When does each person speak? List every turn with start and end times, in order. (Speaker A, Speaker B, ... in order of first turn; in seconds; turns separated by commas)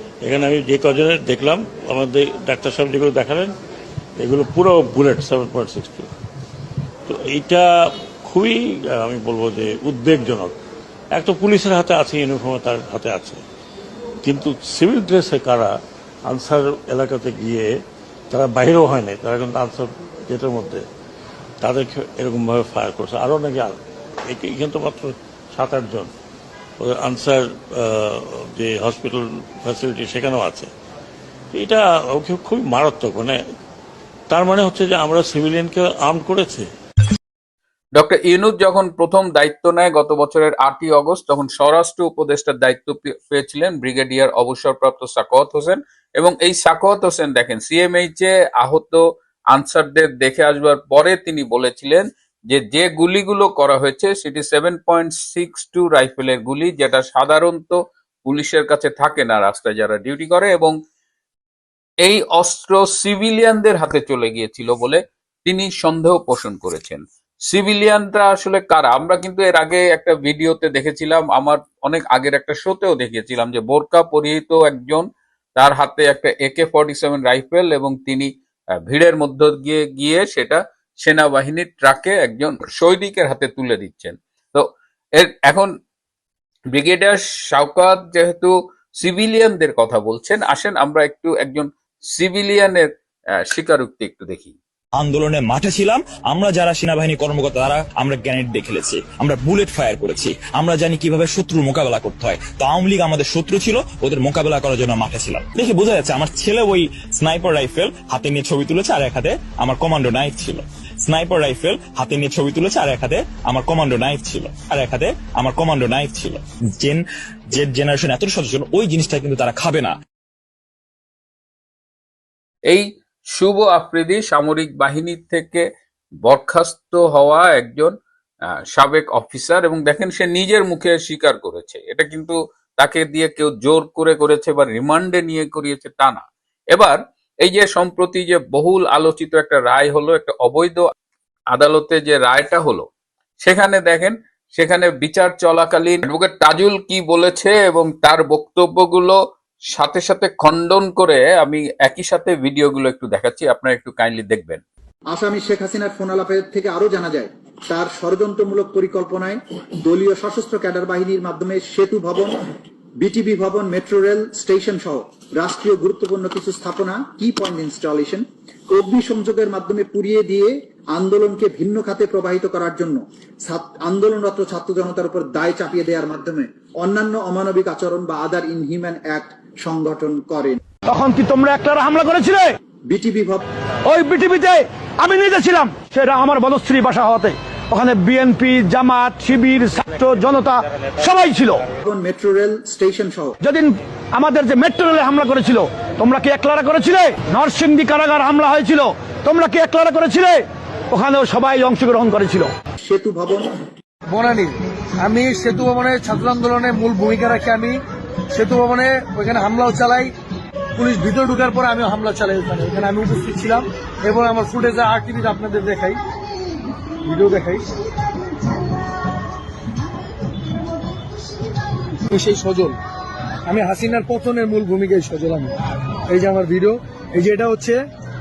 Speaker A: 0.2-3.5, Speaker A: 4.2-6.1, Speaker A: 7.1-7.7, Speaker A: 8.2-10.6, Speaker A: 11.1-13.4, Speaker A: 14.2-15.7, Speaker A: 16.3-17.7, Speaker A: 18.3-20.9, Speaker A: 21.6-23.8, Speaker A: 24.3-26.1, Speaker A: 26.8-30.7, Speaker A: 31.5-33.4, Speaker A: 34.3-36.7, Speaker B: 38.0-60.8, Speaker B: 62.0-78.3, Speaker B: 78.9-84.6, Speaker B: 85.2-85.7, Speaker B: 86.7-92.9, Speaker B: 93.5-94.5, Speaker C: 95.0-120.0, Speaker B: 122.7-125.6, Speaker B: 126.2-127.9, Speaker B: 128.7-140.9, Speaker B: 141.5-142.9, Speaker B: 143.4-149.2, Speaker B: 149.7-154.6, Speaker D: 155.1-162.4, Speaker D: 163.0-180.6, Speaker E: 180.9-182.6, Speaker D: 182.9-183.4, Speaker E: 183.8-191.7, Speaker D: 191.8-193.3, Speaker E: 193.3-202.5, Speaker D: 202.8-203.5, Speaker F: 204.1-207.8, Speaker F: 208.3-210.1, Speaker F: 210.8-216.0, Speaker F: 217.1-217.6, Speaker F: 222.1-222.8, Speaker F: 223.5-225.5, Speaker F: 226.1-227.8